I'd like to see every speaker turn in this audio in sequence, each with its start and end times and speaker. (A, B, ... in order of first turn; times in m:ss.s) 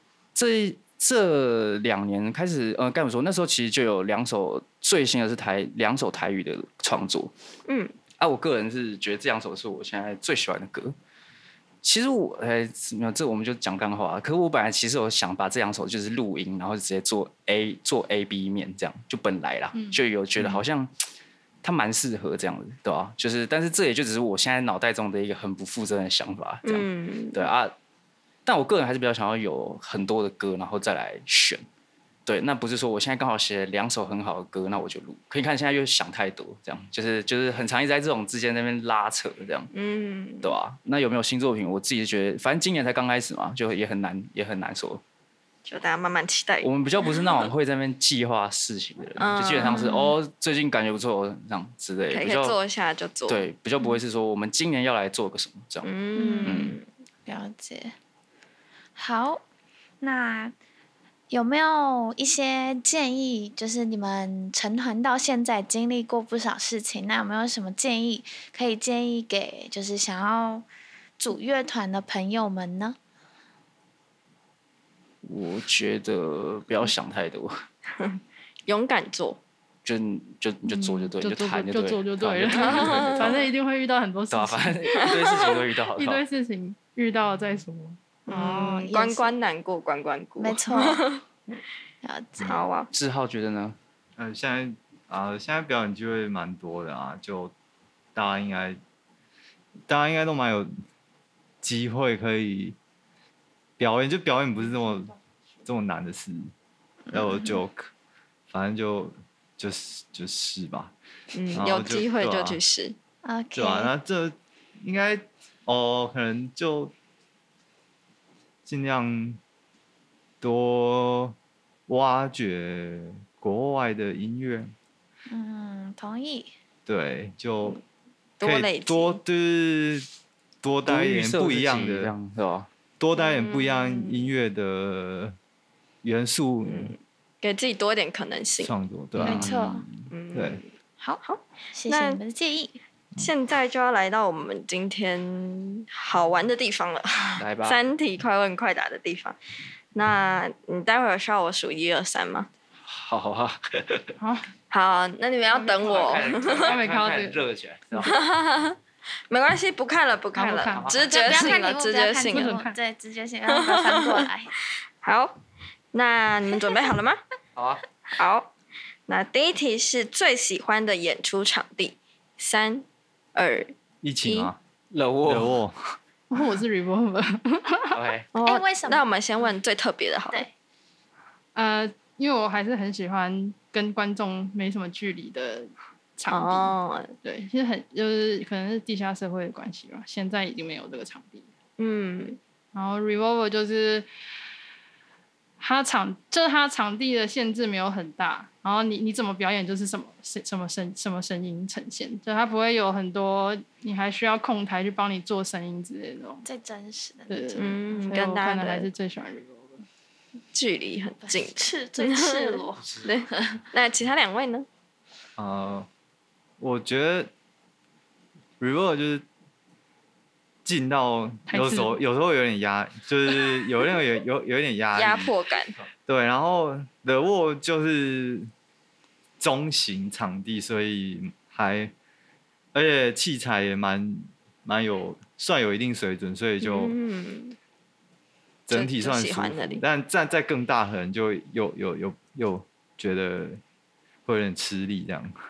0:00.4-0:07.3 A
0:07.7-0:08.0 B
0:08.2-0:11.0 A
0:11.8-0:20.9 A
0:19.7-0:20.0 C
0:20.4-0:20.6 D
0:21.6-0:27.7 A
0:26.6-0:27.5 B
0:28.5-0:31.6 A
0:32.3-0:39.7 A
0:39.7-0:40.6 B
0:40.4-0:45.0 A
0:45.7-0:47.5 B
0:46.6-0:52.6 A
0:49.2-0:49.9 B
0:49.6-0:50.2 E
0:52.1-0:53.4 B
0:53.3-0:55.9 A
0:55.8-0:56.8 B
0:56.2-0:56.6 E
0:56.4-0:56.8 A
0:57.3-0:57.9 E
0:59.0-0:59.4 E
1:00.0-1:00.6 E
1:01.3-1:10.7 E
1:11.2-1:13.0 E
1:15.2-1:17.6 A
1:18.0-1:19.4 B
1:19.8-1:23.5 A
1:20.7-1:28.1 C
1:22.5-1:23.5 B
1:24.3-1:26.2 A
1:28.3-1:31.2 B
1:28.3-1:29.3 E
1:30.4-1:31.1 E
1:32.0-1:32.6 E
1:32.4-1:32.9 B
1:32.9-1:33.8 A
1:34.2-1:37.5 D
1:38.2-1:38.8 D
1:39.9-1:40.7 D
1:41.6-1:42.8 D
1:43.8-1:45.1 D
1:44.6-1:45.2 C
1:45.7-1:46.5 D
1:47.1-1:47.6 E
1:47.1-1:47.9 D
1:48.5-1:50.9 D
1:51.3-1:53.0 B
1:51.5-1:52.6 D
1:53.2-1:53.9 E
1:53.6-1:56.9 D
1:58.7-1:59.4 D
2:00.4-2:01.4 D
2:01.9-2:04.7 D
2:05.3-2:06.5 E
2:06.9-2:07.8 D
2:08.4-2:09.2 B
2:08.4-2:10.1 D
2:10.6-2:12.1 D
2:10.9-2:12.7 A
2:13.0-2:15.4 D
2:13.2-2:14.3 B
2:16.0-2:16.9 D
2:16.7-2:18.7 B
2:18.6-2:19.7 D
2:19.2-2:19.6 A
2:19.2-2:19.8 E
2:20.1-2:20.7 B
2:20.3-2:20.6 D
2:21.2-2:22.2 B
2:21.7-2:22.8 E
2:23.2-2:29.4 B
2:27.4-2:27.8 A
2:29.9-2:32.5 B
2:32.9-2:34.2 A
2:34.2-2:34.5 C
2:34.7-2:36.8 B
2:35.6-2:38.2 A
2:35.7-2:37.5 C
2:38.0-2:38.8 B
2:39.3-2:42.6 B
2:40.4-2:40.9 C
2:40.7-2:41.6 A
2:41.1-2:44.5 E
2:42.3-2:42.8 C
2:43.5-2:44.3 B
2:45.0-2:45.4 B
2:45.9-2:47.2 B
2:47.6-2:47.8 A
2:48.1-2:48.5 B
2:49.1-2:53.7 B
2:54.0-2:54.6 D
2:54.2-2:54.5 B
2:54.9-2:55.6 A
2:55.2-2:56.0 D
2:56.3-2:58.0 C
2:57.9-2:58.3 A
2:58.3-3:00.5 B
2:58.4-2:59.1 E
3:01.6-3:11.5 C
3:06.3-3:07.2 B
3:11.8-3:12.4 B
3:12.7-3:14.1 C
3:15.6-3:26.4 C
3:26.4-3:27.7 E
3:27.3-3:29.9 C
3:27.6-3:28.9 B
3:30.5-3:34.7 B
3:31.2-3:33.6 E
3:35.4-3:35.9 D
3:36.6-3:37.3 D
3:38.6-3:39.2 D
3:40.6-3:45.3 D
3:41.5-3:42.0 C
3:44.9-3:45.8 B
3:46.1-3:48.5 D
3:49.4-3:51.9 D
3:52.7-3:57.0 D
3:56.6-3:57.6 B
3:58.7-4:03.6 D
3:58.7-3:59.8 B
4:04.3-4:05.4 D